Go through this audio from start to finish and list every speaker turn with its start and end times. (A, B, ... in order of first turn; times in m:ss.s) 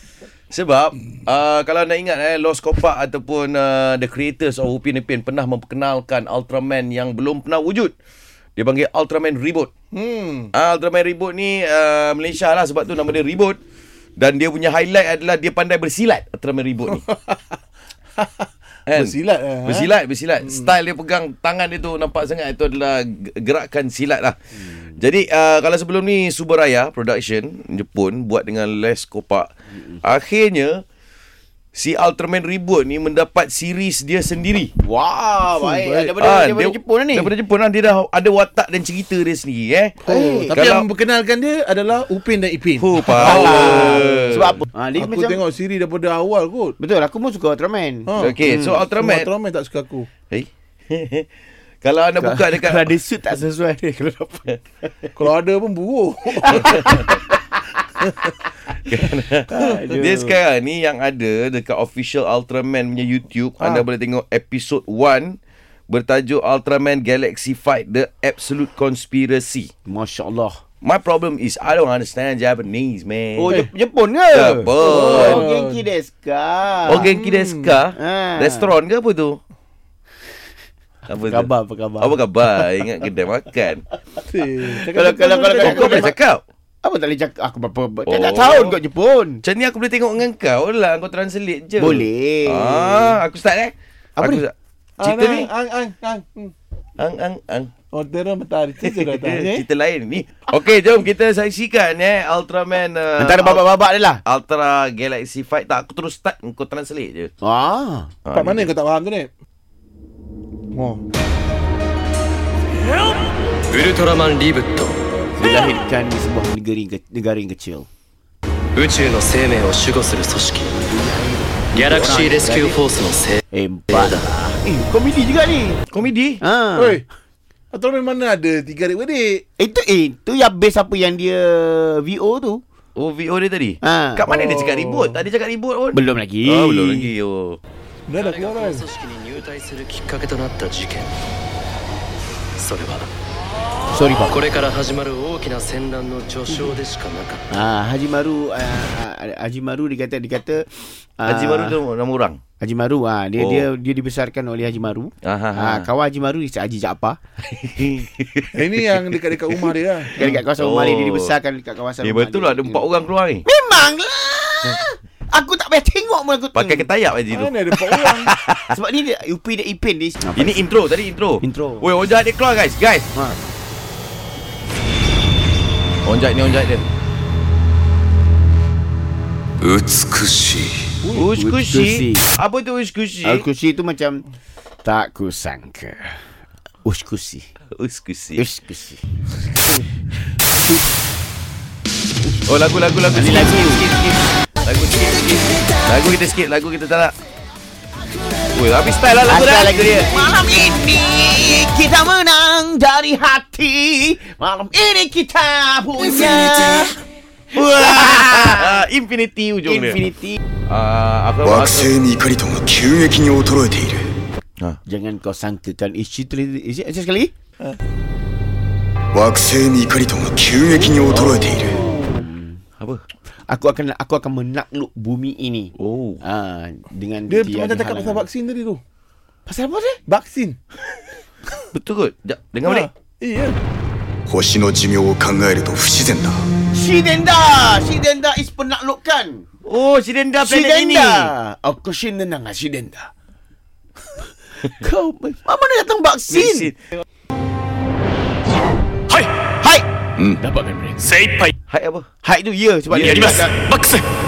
0:00.5-0:08.0 A
0:08.6-0:09.7 A
0:09.9-0:10.5 B
0:10.5-0:13.6 A
0:14.2-0:17.0 A
0:16.9-0:17.4 B
0:18.2-0:19.9 B
0:18.9-0:24.4 A
0:20.4-0:20.7 B
0:25.0-0:29.5 A
0:30.0-0:30.8 A
0:31.8-0:34.7 A
0:34.8-0:37.3 C
0:35.6-0:36.1 B
0:36.2-0:40.0 A
0:40.0-0:46.8 B
0:40.0-0:40.6 C
0:40.5-0:40.9 A
0:42.8-0:44.6 A
0:43.1-0:45.4 C
0:46.8-0:48.9 C
0:48.1-0:48.4 B
0:48.2-0:49.3 A
0:48.9-0:50.1 B
0:50.3-0:51.3 A
0:51.8-0:52.9 A
0:52.2-0:54.9 C
0:55.2-0:57.0 B
0:56.3-0:58.1 C
0:56.5-0:57.1 A
0:58.0-0:58.3 B
0:58.9-1:05.4 A
0:59.5-1:00.4 C
1:05.9-1:09.7 A
1:09.9-1:10.6 C
1:10.8-1:13.6 A
1:13.4-1:17.1 C
1:14.3-1:15.5 A
1:14.8-1:15.9 B
1:16.9-1:19.4 A
1:16.9-1:17.8 B
1:18.0-1:18.8 C
1:21.1-1:23.8 A
1:21.2-1:22.8 C
1:24.2-1:26.1 B
1:24.8-1:26.2 C
1:25.6-1:26.4 A
1:26.8-1:29.4 C
1:28.1-1:28.8 A
1:29.4-1:35.5 A
1:31.8-1:33.1 C
1:34.2-1:34.4 C
1:35.0-1:36.5 B
1:37.0-1:37.7 A
1:37.9-1:39.4 B
1:38.8-1:47.3 A
1:39.3-1:39.6 C
1:43.2-1:44.2 C
1:47.4-1:48.2 C
1:48.2-1:48.7 A
1:48.3-1:49.3 B
1:50.7-1:51.0 B
1:53.7-1:55.0 D
1:55.4-1:57.9 C
1:58.8-2:00.8 D
2:00.7-2:02.8 C
2:01.7-2:03.4 D
2:03.5-2:05.8 C
2:03.9-2:04.2 D
2:05.9-2:06.4 A
2:06.4-2:07.0 C
2:06.8-2:07.0 B
2:07.7-2:09.4 B
2:09.6-2:12.6 C
2:13.0-2:17.6 A
2:13.8-2:14.3 C
2:14.3-2:15.2 B
2:15.9-2:17.1 C
2:18.1-2:18.8 B
2:18.2-2:21.1 D
2:22.6-2:23.1 D
2:23.9-2:24.5 C
2:24.2-2:27.4 D
2:27.5-2:31.8 C
2:31.2-2:32.4 A
2:32.6-2:37.2 C
2:33.4-2:33.7 A
2:35.2-2:35.9 A
2:37.5-2:41.3 A
2:38.5-2:40.2 B
2:40.1-2:42.8 C
2:42.0-2:43.4 A
2:43.4-2:46.9 C
2:46.5-2:48.7 A
2:47.3-2:48.3 B
2:48.7-2:50.7 C
2:50.4-2:53.0 A
2:51.4-2:51.9 C
2:53.1-2:53.4 C
2:56.0-2:56.8 A
2:59.6-3:00.8 E
3:01.0-3:02.3 C
3:01.1-3:03.4 A
3:03.2-3:04.2 C
3:04.8-3:06.2 C
3:06.8-3:07.4 C
3:07.7-3:08.4 A
3:08.4-3:09.0 C
3:10.4-3:10.8 C
3:12.4-3:17.1 A
3:13.1-3:13.9 C
3:18.5-3:20.1 A
3:19.2-3:27.0 C
3:27.5-3:30.0 A
3:27.5-3:28.8 C
3:29.7-3:30.4 C
3:30.7-3:32.0 A
3:31.4-3:34.1 E
3:34.8-3:37.3 C
3:39.1-3:41.9 E
3:41.1-3:41.5 A
3:41.4-3:42.3 B
3:41.7-3:42.6 C
3:42.8-3:43.0 A
3:43.5-3:48.2 C
3:45.8-3:46.2 A
3:47.3-3:48.8 B
3:49.4-3:50.0 C
3:50.0-3:50.6 B
3:51.7-3:52.9 A
3:52.6-3:53.6 B
3:54.3-3:56.4 E
3:56.7-3:59.4 C
3:59.6-4:01.3 A
4:00.4-4:03.1 C
4:04.5-4:06.7 C
4:06.3-4:06.8 A
4:09.5-4:11.2 C
4:11.2-4:11.5 D
4:11.7-4:12.1 A
4:12.2-4:13.6 C
4:12.9-4:13.4 A
4:13.2-4:14.0 D